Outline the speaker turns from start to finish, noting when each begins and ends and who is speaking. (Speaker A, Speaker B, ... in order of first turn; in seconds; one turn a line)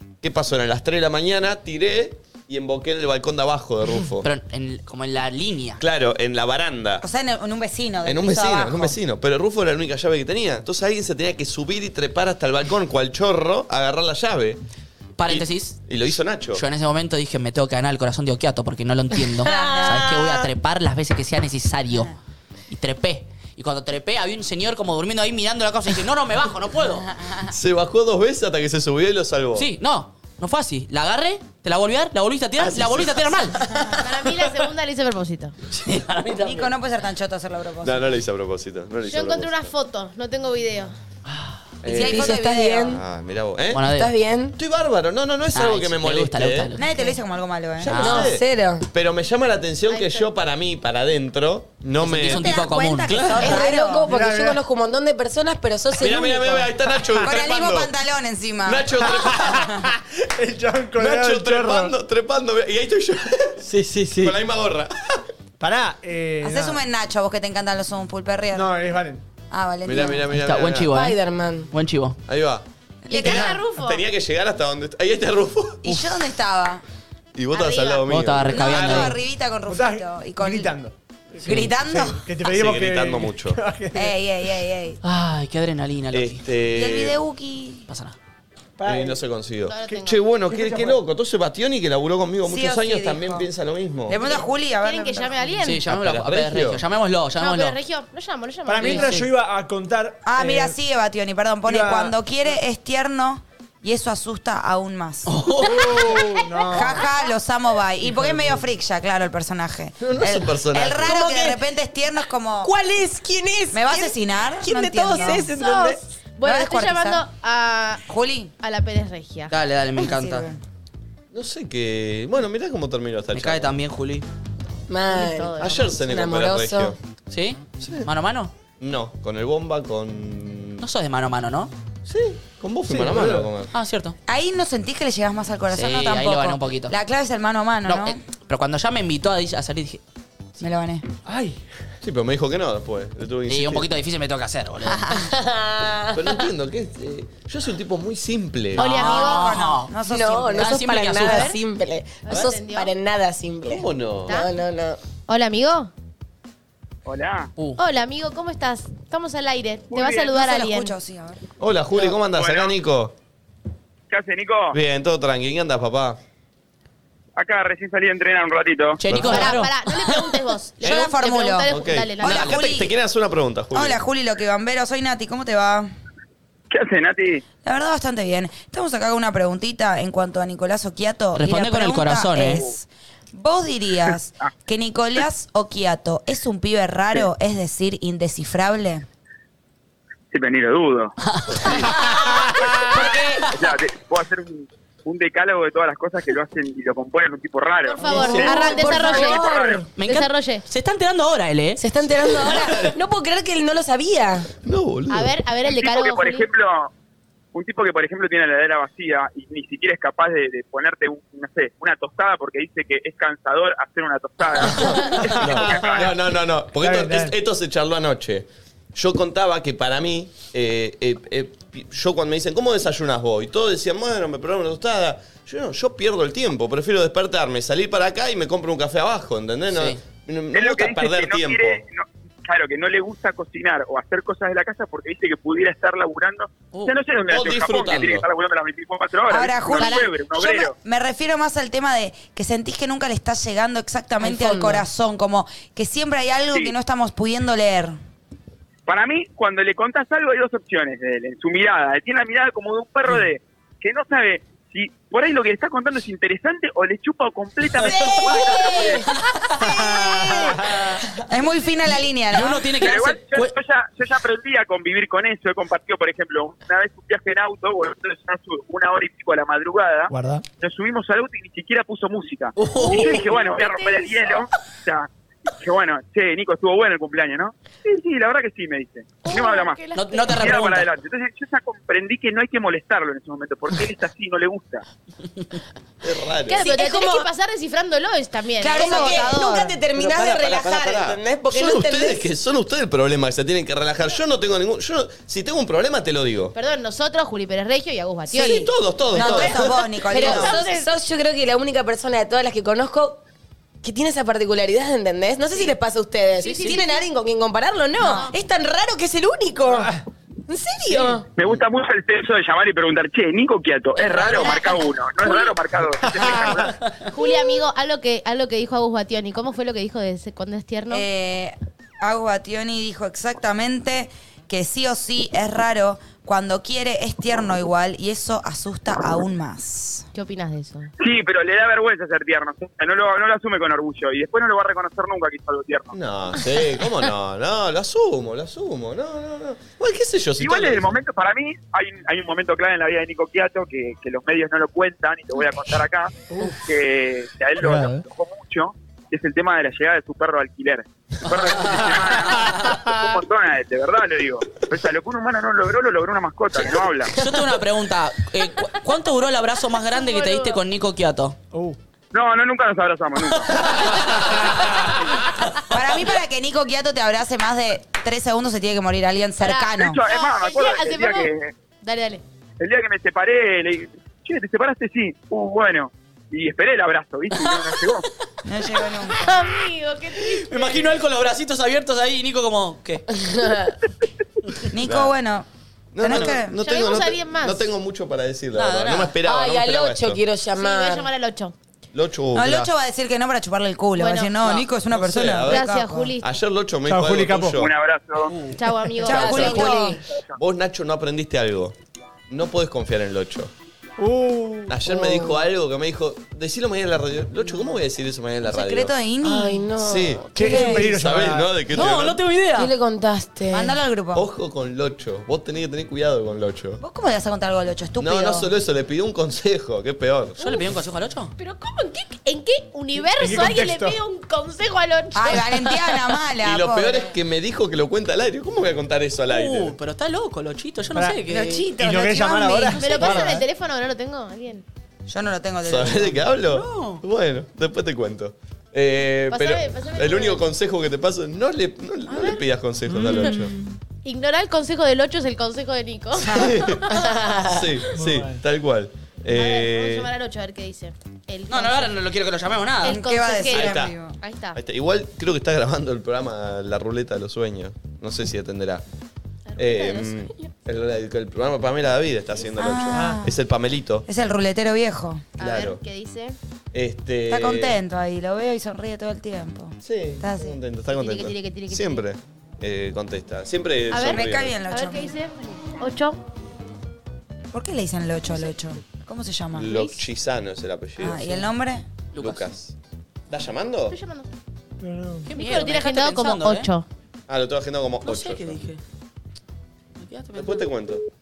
Speaker A: 0.2-4.3
Speaker B: 4.2-5.8
Speaker A: 5.8-7.0
Speaker C: 7.0-9.0
Speaker A: 8.1-14.6
Speaker B: 15.2-15.8
Speaker A: 15.3-16.6
Speaker B: 16.5-22.2
Speaker D: 19.4-20.5
Speaker C: 19.4-20.1
Speaker B: 22.7-27.1
Speaker C: 27.2-27.4
Speaker A: 27.5-29.7
Speaker B: 29.6-33.6
Speaker A: 32.6-33.3
Speaker E: 34.0-35.5
Speaker B: 35.9-36.7
Speaker C: 36.4-38.1
Speaker A: 37.8-39.7
Speaker E: 39.1-40.9
Speaker A: 41.8-43.8
Speaker C: 41.8-43.0
Speaker D: 41.9-43.0
Speaker B: 43.7-44.1
Speaker D: 43.8-44.6
Speaker A: 44.6-46.7
Speaker B: 45.5-46.9
Speaker C: 46.8-48.0
Speaker A: 47.8-53.6
Speaker B: 47.9-48.3
Speaker D: 48.0-48.9
Speaker E: 49.9-50.3
Speaker B: 52.0-53.5
Speaker C: 52.2-54.1
Speaker D: 53.4-56.7
Speaker F: 54.0-54.6
Speaker A: 56.0-57.9
Speaker C: 57.2-59.6
Speaker A: 58.6-59.8
Speaker F: 59.0-62.0
Speaker A: 61.0-65.2
Speaker F: 63.6-64.4
Speaker F: 65.6-66.8
Speaker C: 66.4-68.7
Speaker F: 68.5-69.2
Speaker C: 69.5-70.3
Speaker A: 69.8-70.9
Speaker B: 70.3-72.2
Speaker D: 70.9-71.7
Speaker A: 72.3-76.1
Speaker E: 73.1-74.0
Speaker C: 73.1-73.5
Speaker C: 75.8-76.8
Speaker A: 77.3-79.2
Speaker E: 77.5-78.1
Speaker B: 78.1-79.1
Speaker C: 78.5-80.8
Speaker F: 79.7-84.2
Speaker B: 81.5-81.7
Speaker C: 81.5-82.2
Speaker A: 82.5-83.6
Speaker C: 83.9-85.0
Speaker B: 85.0-86.5
Speaker A: 86.1-87.2
Speaker C: 86.7-87.9
Speaker B: 87.9-88.2
Speaker F: 88.8-89.2
Speaker A: 88.8-94.2
Speaker E: 89.6-90.3
Speaker F: 90.5-91.0
Speaker C: 92.5-93.5
Speaker C: 94.1-95.6
Speaker E: 94.2-95.8
Speaker B: 95.6-97.8
Speaker A: 95.8-96.8
Speaker E: 97.4-99.2
Speaker F: 98.7-100.8
Speaker B: 98.8-99.3
Speaker C: 100.2-105.3
Speaker F: 101.7-102.1
Speaker B: 105.3-106.0
Speaker F: 105.7-107.0
Speaker E: 105.9-106.6
Speaker C: 106.7-112.7
Speaker F: 108.1-108.6
Speaker A: 110.0-111.2
Speaker D: 111.0-111.6
Speaker D: 112.6-116.0
Speaker C: 113.7-115.5
Speaker E: 115.2-118.0
Speaker C: 116.4-117.2
Speaker C: 118.1-118.5
Speaker E: 118.6-119.5
Speaker B: 119.5-120.5
Speaker C: 120.0-120.6
Speaker A: 121.3-123.8
Speaker B: 123.3-124.2
Speaker D: 124.9-127.0
Speaker E: 125.1-126.0
Speaker A: 125.6-127.0
Speaker B: 127.3-128.5
Speaker A: 127.8-128.1
Speaker A: 128.8-130.8
Speaker B: 130.8-131.7
Speaker A: 132.1-133.7
Speaker F: 132.9-133.5
Speaker B: 133.7-134.2
Speaker C: 134.3-138.2
Speaker B: 135.7-136.9
Speaker B: 137.9-140.0
Speaker C: 140.6-141.0
Speaker F: 141.2-141.6
Speaker A: 142.0-143.9
Speaker B: 143.5-145.2
Speaker C: 144.9-145.3
Speaker D: 145.1-146.4
Speaker A: 146.1-148.9
Speaker E: 148.8-149.5
Speaker B: 148.8-149.9
Speaker C: 148.8-150.8
Speaker D: 150.1-155.0
Speaker B: 150.6-151.6
Speaker E: 151.2-151.6
Speaker E: 152.2-152.9
Speaker A: 153.6-154.4
Speaker E: 155.3-155.9
Speaker G: 157.1-157.5
Speaker E: 157.8-160.9
Speaker G: 159.9-160.3
Speaker C: 160.2-161.4
Speaker A: 161.6-163.1
Speaker G: 162.2-162.7
Speaker G: 164.1-164.8
Speaker A: 164.7-166.2
Speaker G: 167.4-169.0
Speaker B: 169.0-169.7
Speaker A: 169.1-169.7
Speaker E: 169.1-172.7
Speaker C: 170.8-172.9
Speaker A: 170.8-171.1
Speaker A: 171.7-174.0
Speaker C: 173.7-175.9
Speaker G: 176.7-177.4
Speaker C: 177.6-189.1
Speaker B: 181.3-182.6
Speaker G: 190.3-191.1
Speaker B: 191.3-193.6
Speaker G: 193.5-199.8
Speaker E: 197.9-200.6
Speaker D: 198.0-199.9
Speaker A: 198.1-198.9
Speaker B: 200.0-201.8
Speaker D: 201.8-204.5
Speaker A: 202.4-202.9
Speaker A: 204.6-205.4
Speaker E: 205.1-206.5
Speaker G: 205.7-206.9
Speaker G: 207.5-216.1
Speaker A: 214.6-231.8
Speaker F: 215.3-216.0
Speaker F: 216.8-217.3
Speaker B: 229.7-230.0
Speaker G: 230.5-240.7
Speaker A: 237.3-238.3
Speaker C: 239.3-248.0
Speaker E: 239.8-240.1
Speaker D: 244.2-244.9
Speaker G: 248.9-259.1
Speaker D: 257.8-259.1
Speaker D: 259.7-260.6
Speaker F: 259.8-261.0
Speaker C: 261.3-262.7
Speaker B: 262.3-263.5
Speaker G: 262.8-284.9
Speaker F: 270.1-270.4
Speaker B: 272.6-273.2
Speaker E: 272.9-274.3
Speaker E: 279.2-280.3
Speaker B: 279.9-280.9
Speaker A: 286.0-286.7
Speaker E: 286.5-289.3
Speaker D: 286.6-287.3
Speaker C: 288.6-289.8
Speaker D: 288.6-292.2
Speaker A: 289.9-296.6
Speaker E: 296.5-300.9
Speaker A: 298.3-299.8
Speaker C: 298.3-300.6
Speaker D: 300.1-303.2
Speaker D: 303.8-309.9
Speaker E: 306.4-307.1
Speaker C: 308.0-308.3
Speaker E: 308.1-308.4
Speaker D: 310.5-311.3
Speaker G: 311.3-316.8
Speaker E: 314.1-315.5
Speaker D: 314.3-314.6
Speaker F: 316.1-316.5
Speaker E: 317.1-321.1
Speaker C: 320.9-330.1
Speaker E: 330.1-330.9
Speaker G: 331.0-336.0
Speaker A: 335.9-340.9
Speaker G: 340.4-357.1
Speaker F: 346.3-346.6
Speaker F: 347.6-348.0
Speaker B: 351.5-352.6
Speaker B: 357.1-361.4
Speaker E: 359.9-360.6
Speaker F: 361.5-361.8
Speaker G: 362.1-364.0
Speaker B: 363.6-364.4
Speaker C: 365.6-370.0
Speaker E: 369.4-372.2
Speaker G: 369.8-371.6
Speaker G: 372.6-378.1
Speaker C: 378.5-379.4
Speaker E: 379.1-380.9
Speaker B: 380.3-383.1
Speaker D: 383.2-383.8
Speaker C: 384.7-385.5
Speaker A: 384.8-385.1
Speaker A: 385.9-390.2
Speaker C: 386.0-386.6
Speaker E: 386.5-387.7
Speaker B: 388.5-389.1
Speaker D: 389.2-391.1
Speaker E: 390.6-391.6
Speaker A: 391.9-392.7
Speaker C: 392.4-396.1
Speaker E: 394.0-394.5
Speaker A: 394.9-397.7
Speaker E: 395.5-396.2
Speaker F: 396.9-397.6
Speaker G: 397.6-398.4
Speaker B: 398.3-398.6
Speaker E: 398.5-399.9
Speaker C: 399.0-400.0
Speaker A: 399.1-399.6
Speaker D: 399.2-400.0
Speaker A: 400.4-401.8
Speaker A: 402.3-403.5
Speaker F: 404.0-404.8
Speaker A: 404.7-408.9
Speaker D: 404.9-405.4
Speaker C: 408.5-409.7
Speaker D: 409.2-410.8
Speaker A: 409.8-412.2
Speaker F: 410.3-411.5
Speaker C: 410.4-410.9
Speaker B: 411.7-412.7
Speaker D: 412.6-413.8
Speaker C: 413.5-414.3
Speaker A: 414.1-416.8
Speaker C: 416.8-418.5
Speaker A: 418.0-420.4
Speaker B: 420.4-421.3
Speaker E: 421.4-425.8
Speaker F: 423.2-424.0
Speaker C: 425.1-427.1
Speaker A: 426.4-429.8
Speaker B: 429.3-431.7
Speaker F: 430.9-433.5
Speaker C: 431.3-433.2
Speaker E: 432.8-434.6
Speaker C: 435.1-436.2
Speaker A: 435.6-443.5
Speaker B: 436.5-437.0
Speaker E: 439.3-440.4
Speaker F: 442.9-443.4
Speaker E: 444.0-447.5
Speaker A: 446.2-450.1
Speaker F: 448.0-448.4
Speaker E: 449.3-452.0
Speaker B: 451.5-453.0
Speaker E: 452.8-454.6
Speaker C: 452.8-454.2
Speaker A: 453.5-454.0
Speaker A: 454.6-458.8
Speaker E: 459.5-460.4
Speaker A: 459.6-464.1
Speaker C: 462.6-463.4
Speaker C: 464.1-465.3
Speaker E: 465.4-466.4
Speaker A: 465.4-465.8
Speaker A: 466.7-467.8
Speaker C: 467.3-470.6
Speaker A: 469.8-474.6
Speaker E: 470.9-472.1
Speaker E: 473.9-476.2
Speaker C: 474.0-475.1
Speaker C: 477.5-479.8
Speaker A: 479.6-481.4
Speaker C: 481.0-481.9
Speaker B: 482.1-482.4
Speaker A: 482.2-482.8
Speaker A: 483.3-484.0
Speaker E: 483.9-484.3
Speaker F: 484.8-485.3
Speaker B: 485.2-486.7
Speaker E: 485.4-486.9
Speaker A: 487.3-488.7
Speaker B: 488.0-488.8
Speaker B: 490.0-490.6
Speaker A: 490.4-491.0